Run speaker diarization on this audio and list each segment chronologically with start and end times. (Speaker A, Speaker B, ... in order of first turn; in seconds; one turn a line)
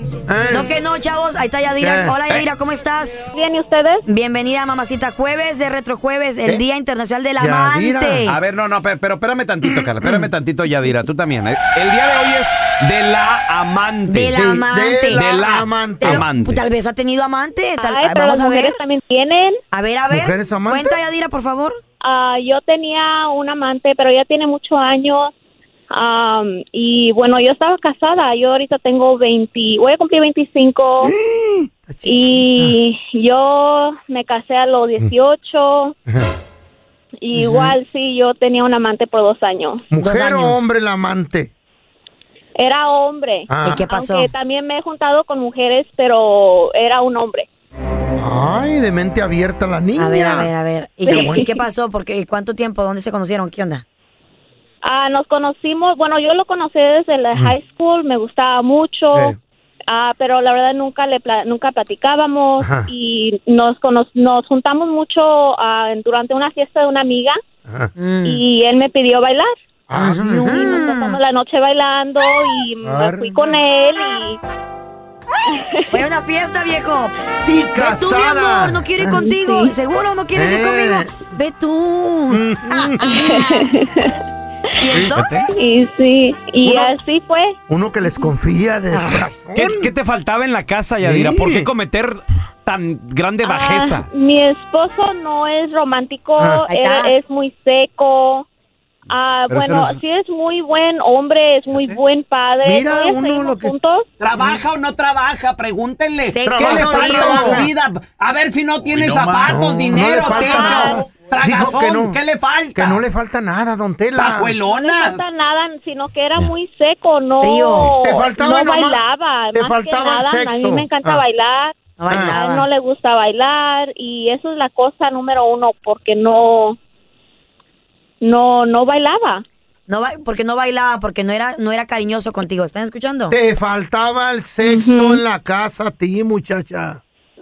Speaker A: 0.3-0.7
Speaker B: 0.5-3.3
Speaker A: 1.8-2.2
Speaker C: 3.3-4.0
Speaker B: 4.1-8.4
Speaker A: 7.4-8.3
Speaker D: 8.3-14.3
Speaker A: 10.0-10.3
Speaker B: 14.1-15.2
Speaker A: 14.3-16.2
Speaker D: 15.1-16.6
Speaker B: 16.0-18.8
Speaker C: 17.8-19.6
Speaker B: 19.7-21.8
Speaker A: 20.1-21.0
Speaker C: 22.0-25.3
Speaker C: 25.9-31.1
Speaker A: 31.0-32.8
Speaker C: 32.0-35.9
Speaker A: 36.1-36.3
Speaker C: 37.2-39.8
Speaker B: 37.4-37.7
Speaker A: 39.9-41.5
Speaker B: 40.0-40.6
Speaker C: 42.6-47.5
Speaker A: 43.5-43.8
Speaker B: 43.6-44.3
Speaker A: 48.2-50.5
Speaker B: 50.0-53.8
Speaker C: 51.0-51.6
Speaker A: 51.1-51.5
Speaker C: 54.8-59.3
Speaker C: 59.9-67.4
Speaker A: 62.6-62.9
Speaker A: 67.7-67.9
Speaker B: 68.0-68.4
Speaker C: 68.2-69.5
Speaker A: 69.9-70.8
Speaker B: 69.9-71.2
Speaker C: 70.4-74.4
Speaker A: 72.8-73.4
Speaker C: 75.5-75.9
Speaker B: 75.9-77.1
Speaker A: 77.4-79.2
Speaker B: 77.8-83.7
Speaker C: 79.1-79.7
Speaker A: 80.3-81.1
Speaker A: 82.3-83.2
Speaker C: 83.1-84.1
Speaker B: 84.8-85.5
Speaker A: 84.9-85.2
Speaker D: 85.1-85.4
Speaker C: 85.5-87.5
Speaker A: 86.6-86.9
Speaker A: 87.7-89.9
Speaker B: 88.9-89.2
Speaker D: 89.5-94.1
Speaker A: 91.0-91.7
Speaker C: 93.4-98.4
Speaker A: 96.4-96.6
Speaker B: 96.7-97.1
Speaker C: 99.1-104.1
Speaker D: 99.5-100.0
Speaker A: 102.6-103.7
Speaker E: 104.2-113.0
Speaker B: 106.3-107.7
Speaker A: 106.4-107.7
Speaker D: 108.9-109.5
Speaker A: 109.3-112.2
Speaker C: 110.2-111.1
Speaker A: 112.7-114.6
Speaker E: 114.2-115.2
Speaker C: 114.6-126.8
Speaker B: 117.4-117.9
Speaker A: 118.0-119.0
Speaker A: 119.5-121.2
Speaker B: 122.0-122.7
Speaker A: 122.1-122.4
Speaker C: 128.2-129.4
Speaker B: 129.9-133.3
Speaker A: 133.3-137.0
Speaker C: 134.6-135.2